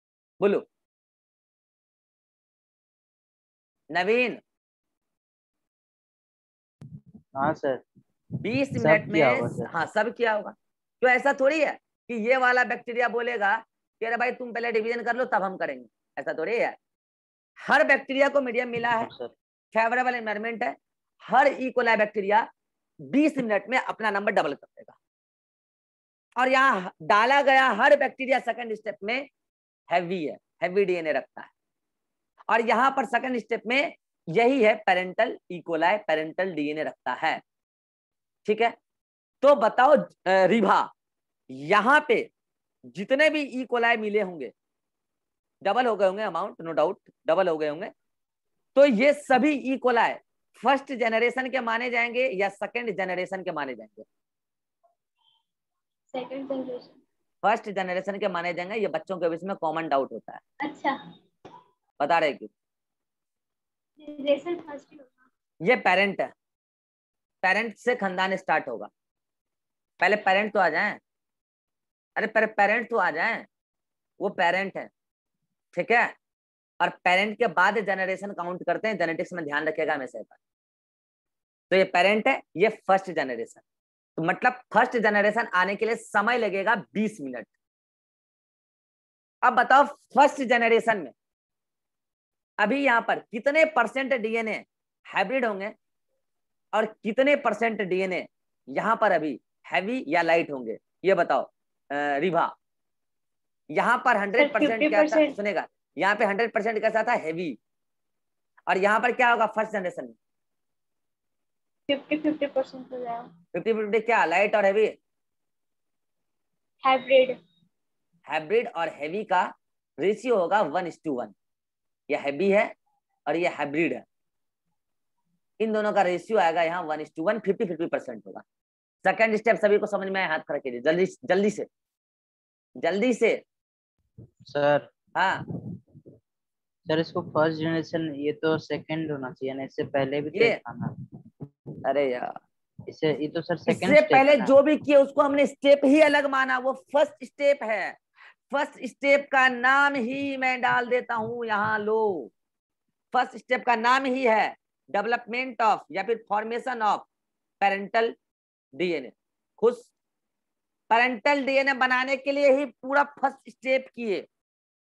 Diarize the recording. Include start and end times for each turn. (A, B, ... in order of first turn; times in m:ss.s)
0:03.9-0:04.4 A
0:07.3-0:07.8 B
0:08.4-0:16.8 A
0:08.8-0:09.7 B
0:17.6-0:19.1 A
0:19.0-0:19.3 B
0:19.7-0:20.8 A
0:21.3-0:22.5 A
0:23.1-0:25.0 A
0:26.4-0:29.2 A
0:29.9-0:31.5 A
0:32.5-0:37.4 A
0:38.4-0:38.7 A
0:39.4-0:40.9 A
0:41.5-0:42.3 A
0:42.9-0:44.5 A
0:45.6-0:47.9 A
0:48.7-0:54.0 A
0:56.1-0:57.0 C
0:57.4-1:00.4 A
1:00.6-1:01.0 C
1:02.0-1:02.5 A
1:04.0-1:05.1 C
1:05.6-1:06.3 A
1:07.4-1:08.9 A
1:10.0-1:11.0 A
1:12.2-1:13.4 A
1:14.2-1:14.9 A
1:15.7-1:16.1 A
1:16.8-1:20.4 A
1:21.7-1:23.6 A
1:24.2-1:27.5 A
1:29.4-1:31.1 A
1:32.6-1:35.7 A
1:36.7-1:42.5 A
1:43.7-1:47.6 A
1:44.4-1:45.3 C
1:48.7-1:50.2 A
1:51.9-1:53.3 C
1:53.5-1:55.0 A
1:56.8-1:57.4 C
1:58.3-2:01.3 A
2:02.1-2:02.7 A
2:03.3-2:04.0 A
2:05.6-2:08.4 A
2:09.0-2:11.7 A
2:12.8-2:13.4 A
2:14.4-2:14.9 B
2:15.2-2:15.4 A
2:16.9-2:21.0 B
2:20.3-2:20.6 A
2:21.8-2:22.4 A
2:22.9-2:24.6 B
2:23.7-2:28.0 A
2:28.5-2:32.3 A
2:33.1-2:37.0 A
2:37.6-2:38.1 A
2:38.8-2:39.9 A
2:40.9-2:44.2 A